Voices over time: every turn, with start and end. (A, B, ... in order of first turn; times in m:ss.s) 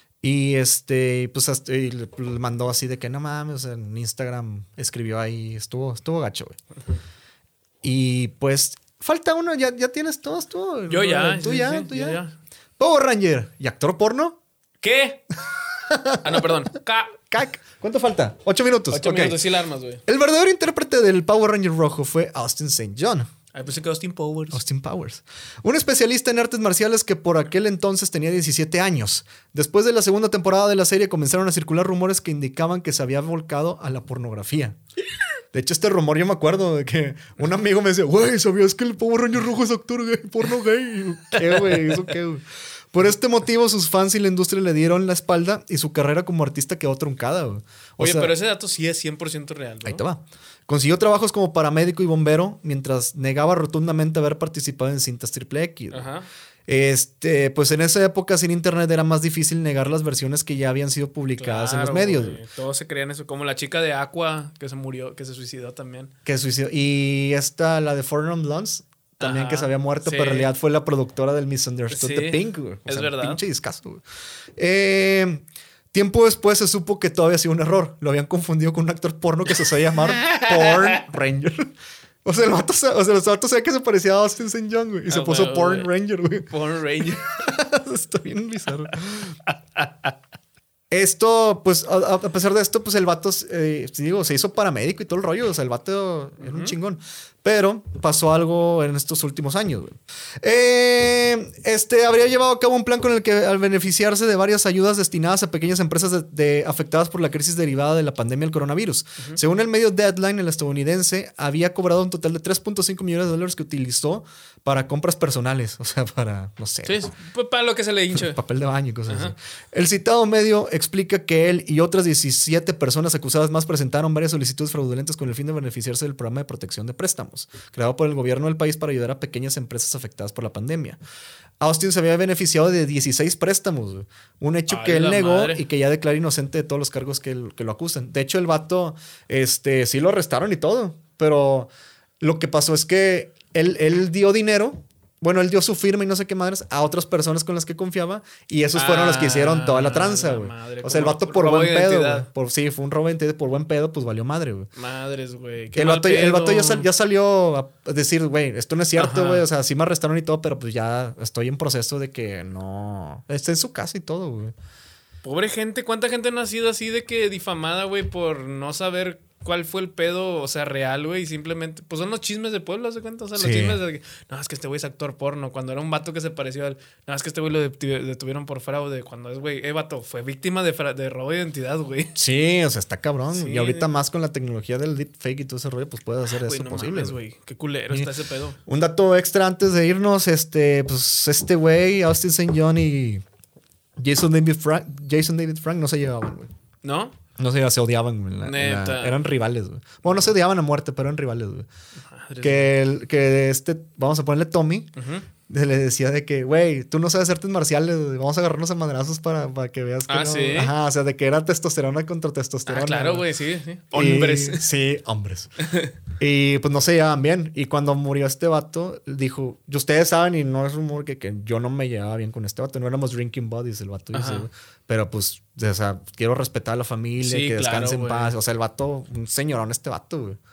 0:00.2-0:06.6 A
0:07.8-0:12.2 A
0:10.9-0:12.3 B
0:12.8-0:14.4 A
0:14.8-0:15.2 B
0:15.9-0:16.5 A
0:16.2-0:17.2 B
0:17.3-0:19.4 A
0:18.9-0:20.0 B
0:20.1-0:23.3 A
0:23.5-0:24.6 B
0:24.5-0:34.8 A
0:35.5-0:48.3 A
0:41.5-0:42.0 B
0:48.0-0:50.0 B
0:49.8-0:56.1 A
0:55.9-0:56.3 B
0:56.7-1:02.4 A
1:01.4-1:06.1 B
1:06.2-1:14.0 A
1:09.2-1:10.5 B
1:11.9-1:13.4 B
1:14.6-1:21.7 A
1:20.1-1:21.1 B
1:22.2-1:26.5 A
1:25.1-1:25.9 B
1:26.5-1:27.3 B
1:27.0-1:29.4 A
1:29.5-1:30.1 B
1:30.9-1:57.0 A
1:36.4-1:36.8 B
1:56.8-1:58.4 B
1:58.1-2:11.0 A
1:59.1-1:59.3 B
2:11.6-2:34.7 A
2:14.7-2:15.6 B
2:28.8-2:32.3 B
2:34.8-2:36.9 B
2:35.8-2:44.5 A
2:39.0-2:39.5 B
2:45.2-3:02.2 B
2:53.4-2:53.8 A
3:02.2-3:07.2 A
3:03.3-3:03.9 B
3:06.3-3:08.6 B
3:08.7-3:13.2 A
3:14.0-3:16.5 A
3:16.8-3:17.2 B
3:17.4-3:21.7 A
3:18.4-3:19.2 B
3:22.1-3:22.7 B
3:22.4-3:24.9 A
3:25.0-3:25.3 B
3:25.5-3:33.3 A
3:30.1-3:30.7 B
3:32.7-3:34.6 B
3:33.9-3:35.5 A
3:35.6-3:35.9 B
3:36.2-3:50.4 A
3:44.1-3:44.5 B
3:47.2-3:48.3 B